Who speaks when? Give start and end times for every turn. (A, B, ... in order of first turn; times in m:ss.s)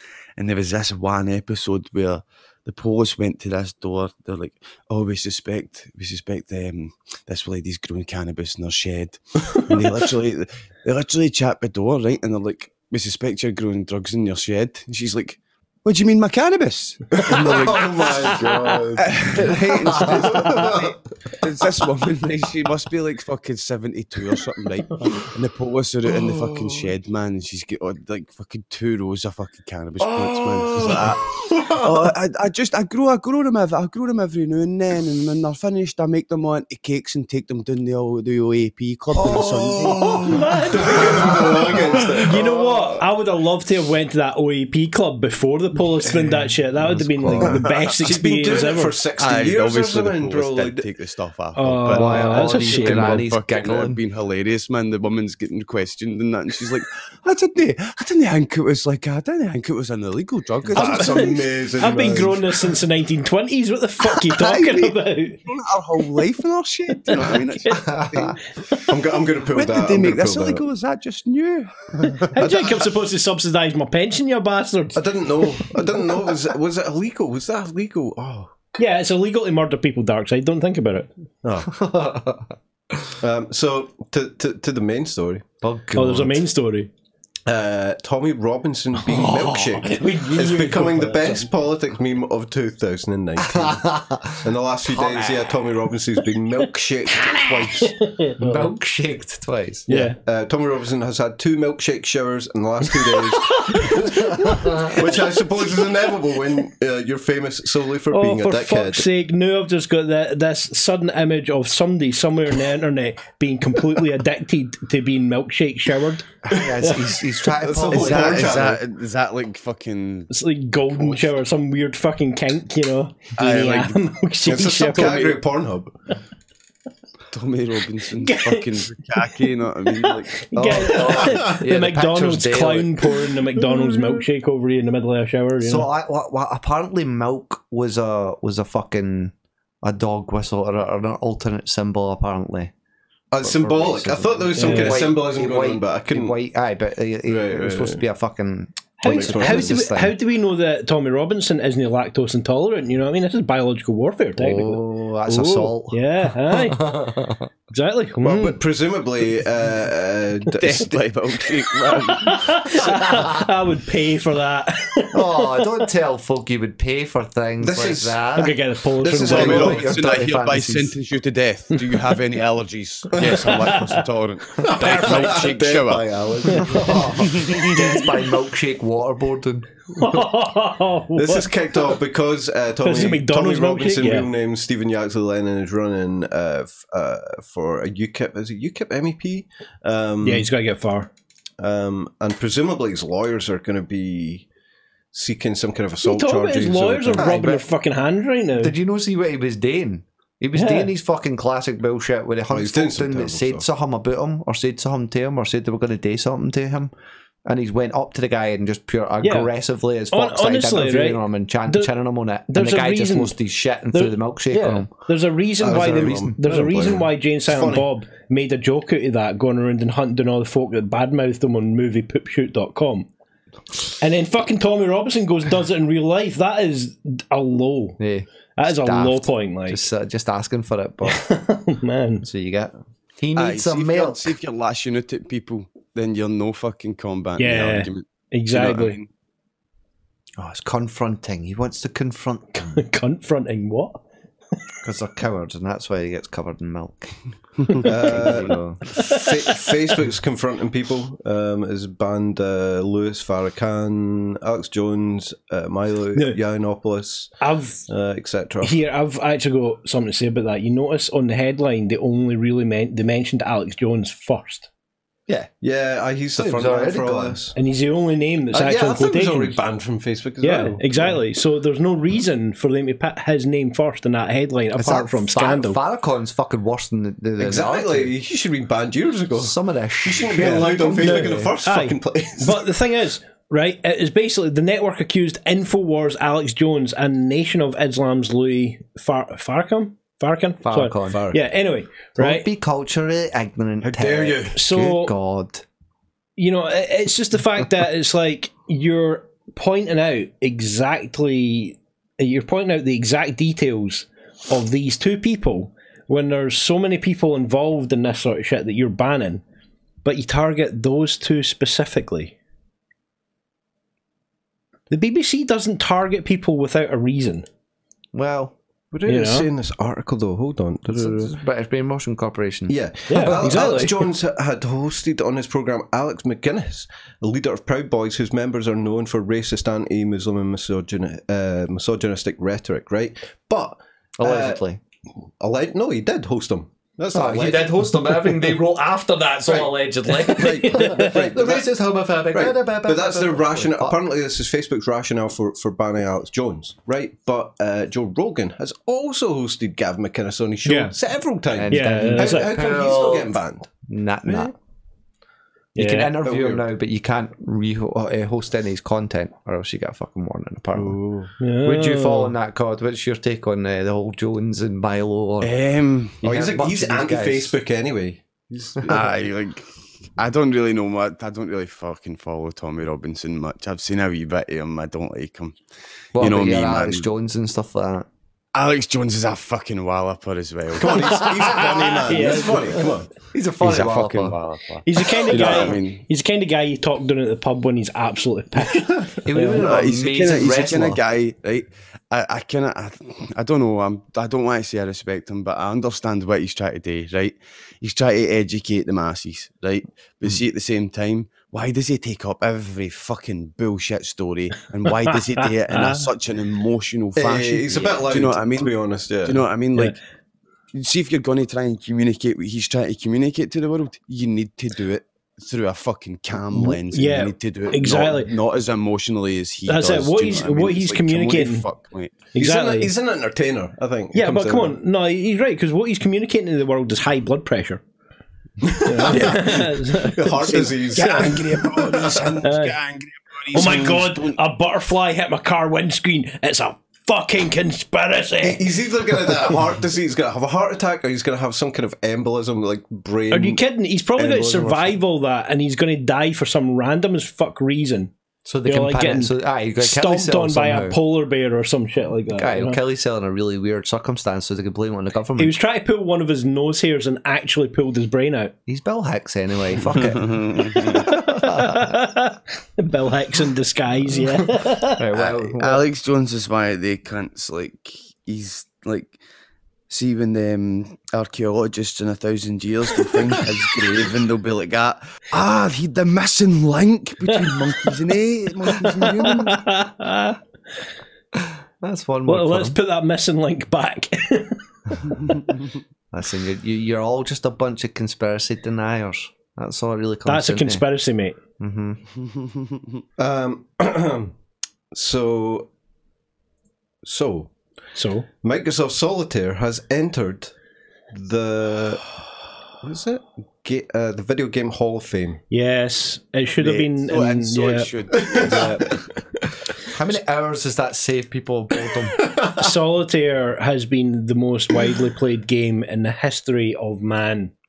0:00.4-0:41.9 A
0:17.1-0:21.0 B
0:19.4-0:20.4 C
0:26.1-0:26.9 B
0:30.0-0:31.8 B
0:39.2-0:43.0 B
0:39.4-0:40.0 C
0:40.2-0:41.3 D
0:42.2-0:49.0 D
0:46.9-0:47.5 C
0:47.3-0:50.9 B
0:47.3-0:47.9 A
0:49.2-1:01.3 A
0:51.6-0:53.2 D
0:51.9-0:54.0 C
1:00.7-1:02.7 B
1:00.8-1:05.4 D
1:04.0-1:08.9 A
1:07.1-1:08.0 D
1:07.8-1:08.4 C
1:08.9-1:10.6 B
1:09.5-1:12.3 A
1:12.3-1:15.7 D
1:12.4-1:12.9 B
1:14.9-1:18.5 B
1:18.8-1:21.1 D
1:21.4-1:21.9 B
1:21.7-1:22.5 C
1:23.2-1:25.4 B
1:25.6-1:26.4 C
1:26.0-1:26.9 D
1:27.5-1:38.0 B
1:29.0-1:31.5 D
1:33.5-1:35.6 C
1:37.7-1:38.7 D
1:38.4-1:39.9 C
1:39.9-1:40.2 D
1:39.9-1:49.1 B
1:43.6-1:44.5 D
1:44.4-1:45.0 C
1:48.1-1:57.0 D
1:56.4-1:58.7 C
1:57.6-1:58.8 B
1:57.8-2:00.3 A
2:00.3-2:05.4 D
2:01.0-2:01.2 A
2:03.4-2:04.0 A
2:04.4-2:06.0 B
2:07.3-2:10.4 A
2:08.2-2:08.9 D
2:10.0-2:15.9 D
2:10.6-2:13.2 C
2:10.6-2:11.6 B
2:15.6-2:22.7 C
2:23.3-2:26.4 B
2:23.4-2:30.2 C
2:24.6-2:25.0 D
2:27.3-2:28.0 B
2:29.0-2:37.0 D
2:29.0-2:29.8 B
2:34.4-2:37.5 C
2:37.7-2:38.6 D
2:38.2-2:41.0 B
2:40.6-2:42.8 A
2:41.9-2:45.7 D
2:45.1-2:48.6 C
2:47.6-2:48.2 B
2:48.4-2:49.8 D
2:49.0-2:49.9 B
2:49.1-2:51.0 C
2:49.2-2:57.8 A
2:53.2-2:53.5 B
2:53.2-2:54.0 D
2:54.6-2:57.7 B
2:54.6-2:55.3 D
2:56.5-2:57.0 D
2:56.7-2:59.7 C
3:00.0-3:01.5 D
3:01.1-3:10.5 B
3:02.8-3:04.3 D
3:10.2-3:11.1 D
3:11.6-3:14.5 B
3:15.1-3:17.3 B
3:16.0-3:18.8 D
3:17.2-3:17.7 C
3:18.6-3:26.9 C
3:20.5-3:20.9 D
3:22.5-3:23.6 B
3:27.4-3:34.9 C
3:29.2-3:29.5 D
3:30.1-3:31.9 D
3:32.5-3:33.4 D
3:33.9-3:43.1 D
3:35.6-3:37.9 B
3:35.7-3:36.4 C
3:44.0-3:48.0 D
3:48.0-3:51.2 C
3:48.6-3:49.8 D
3:51.0-3:52.3 D
3:52.2-3:54.4 C
3:53.4-3:59.1 A
3:57.4-3:59.0 D
4:00.4-4:02.8 C
4:02.7-4:04.0 D
4:04.8-4:07.2 C
4:07.7-4:08.8 C
4:07.8-4:18.8 B
4:08.9-4:09.7 D
4:17.4-4:17.9 D
4:18.6-4:24.7 D
4:25.6-4:27.6 B
4:26.4-4:27.4 C
4:27.6-4:29.6 D
4:28.5-4:31.2 B
4:30.4-4:35.8 D
4:34.8-4:38.1 C
4:37.4-4:42.7 B
4:39.4-4:41.5 C
4:41.0-4:52.5 D
4:50.6-4:51.2 C
4:51.1-4:51.4 B
4:52.2-4:55.6 C
4:54.0-4:54.4 A
4:54.0-4:54.4 B
4:54.5-4:55.1 D
4:56.4-5:09.4 D
5:10.0-5:12.4 D
5:14.9-5:17.5 D
5:18.1-5:18.6 C
5:18.9-5:21.3 B
5:19.1-5:19.5 D
5:20.9-5:23.6 C
5:22.7-5:34.6 B
5:23.1-5:24.1 D
5:34.2-5:34.8 C
5:35.4-5:38.5 B
5:37.1-5:44.0 C
5:39.5-5:41.7 B
5:40.3-5:41.2 D
5:42.3-5:53.7 B
5:50.6-5:50.9 D
5:51.5-5:53.3 C
5:51.7-5:52.5 D
5:53.9-5:54.5 C
5:54.3-5:54.5 B
5:55.8-5:56.1 D
5:55.8-6:01.0 C
5:56.2-5:56.6 B
6:00.8-6:01.3 B
6:01.4-6:02.3 D
6:01.6-6:05.5 C
6:05.4-6:06.2 A
6:06.2-6:07.6 C
6:06.2-6:09.0 B
6:08.8-6:15.6 A
6:16.2-6:17.1 A
6:16.2-6:18.1 C
6:18.5-6:22.7 A
6:20.8-6:23.1 B
6:21.2-6:22.8 D
6:23.3-6:24.4 C
6:23.6-6:26.0 A
6:24.8-6:29.6 D
6:29.1-6:31.0 C
6:29.5-6:50.0 A
6:45.7-6:46.1 D
6:47.2-6:49.4 B
6:50.7-7:02.2 A
6:56.5-6:58.3 D
6:59.7-7:01.6 D
7:02.4-7:02.9 D
7:02.4-7:04.8 B
7:04.1-7:07.8 D
7:08.6-7:12.4 B
7:08.8-7:12.8 D
7:09.1-7:09.5 A
7:10.5-7:14.4 A
7:13.5-7:18.7 D
7:18.4-7:23.6 B
7:23.3-7:28.1 D
7:24.2-7:24.9 C
7:24.3-7:24.7 B
7:28.4-7:31.0 C
7:28.7-7:32.8 D
7:32.3-7:35.5 C
7:35.4-7:38.5 D
7:38.7-7:41.9 C
7:40.0-7:41.0 A
7:40.7-7:45.0 D
7:44.9-7:45.8 C
7:45.1-7:49.2 A
7:49.9-7:59.6 A
7:59.0-8:00.4 D
8:01.4-8:02.8 C
8:02.3-8:05.4 D
8:06.1-8:10.9 C
8:10.3-8:11.4 D
8:11.6-8:12.0 C
8:12.2-8:13.0 A
8:13.2-8:14.3 B
8:14.9-8:15.7 B
8:17.0-8:17.5 B
8:18.0-8:18.3 D
8:18.4-8:20.5 B
8:21.1-8:22.2 B
8:22.8-8:25.4 B
8:25.5-8:27.9 D
8:26.6-8:28.9 A
8:28.1-8:29.1 B
8:29.9-8:32.2 C
8:32.3-8:32.7 B
8:32.6-8:37.5 D